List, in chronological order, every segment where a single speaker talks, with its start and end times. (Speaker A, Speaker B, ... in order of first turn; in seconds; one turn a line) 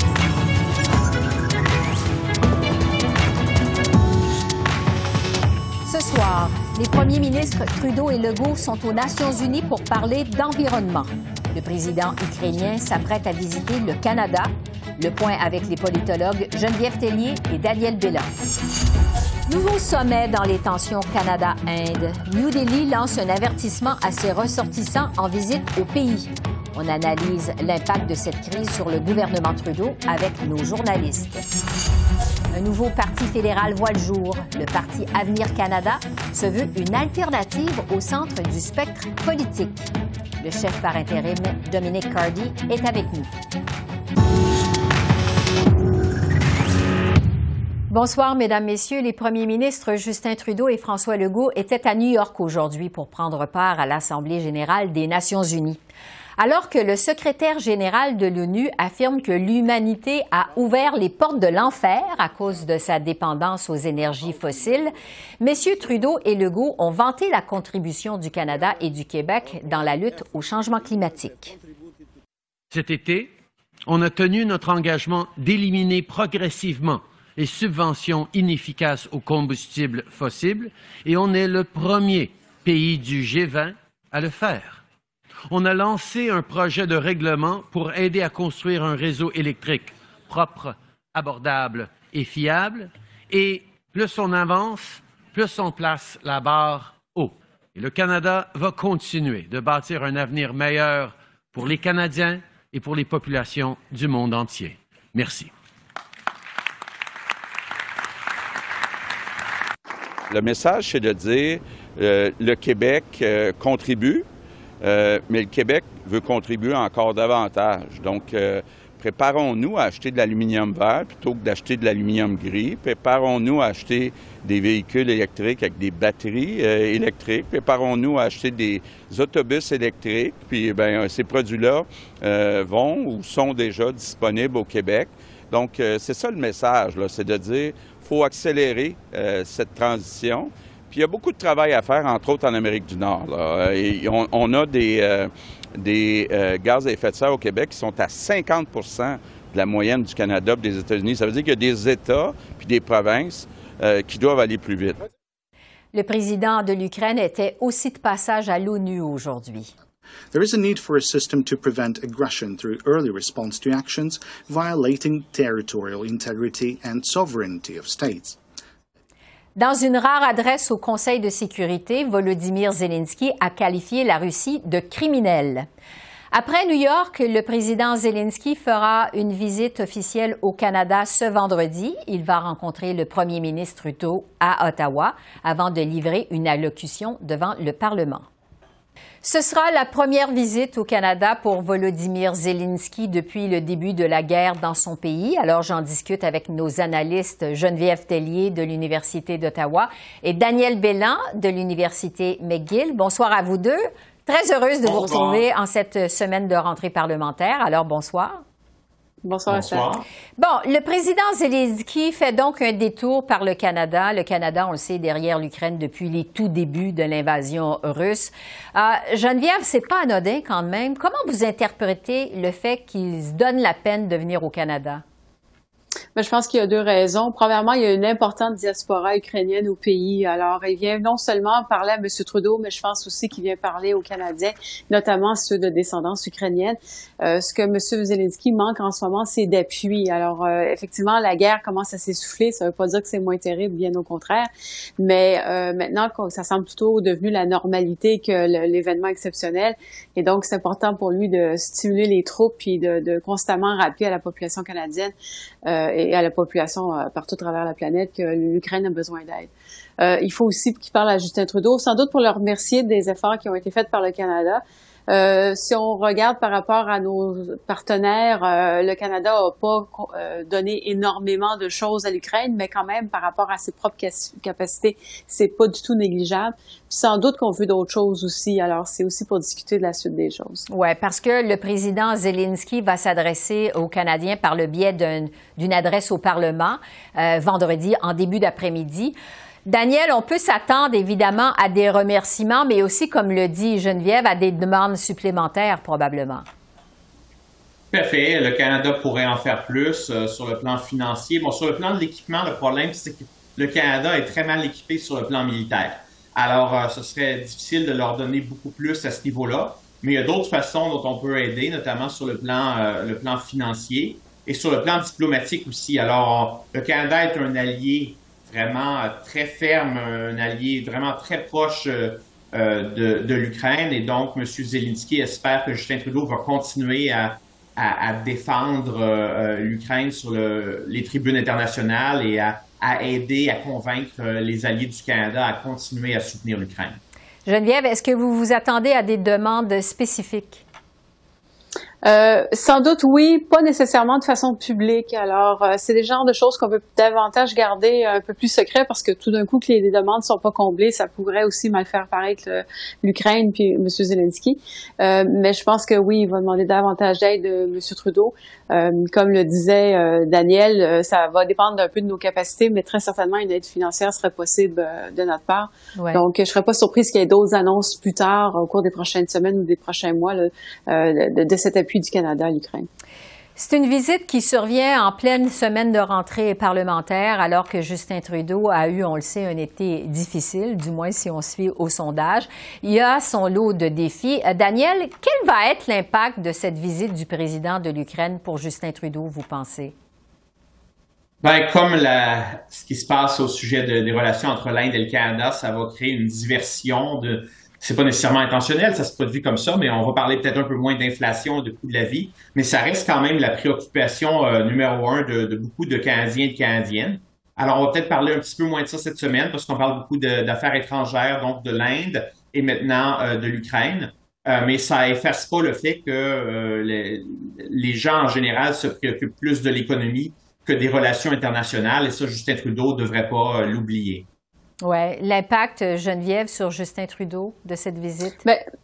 Speaker A: 5.8-18.3
Speaker A: 19.5-31.4
Speaker A: 32.5-39.9
Speaker A: 40.4-43.3
Speaker A: 47.9-55.8
Speaker A: 56.4-71.5
Speaker B: 72.7-73.3
Speaker B: 73.8-84.8
Speaker B: 85.5-105.5
Speaker C: 110.3-114.2
Speaker C: 114.8-155.0
Speaker A: 155.9-159.7
Speaker D: 160.3-168.4
Speaker A: 169.6-175.7
Speaker A: 176.3-188.3
Speaker A: 189.2-208.4
Speaker E: 204.8-205.4
Speaker F: 209.2-210.0
Speaker E: 209.5-210.0
Speaker A: 210.4-225.0
Speaker F: 226.1-255.1
Speaker F: 255.6-280.6
Speaker A: 280.7-296.4
Speaker E: 297.9-337.0
Speaker A: 337.4-340.6
Speaker F: 342.0-372.9
Speaker A: 365.9-366.2
Speaker A: 373.6-389.9
Speaker E: 391.4-424.3
Speaker A: 424.8-428.4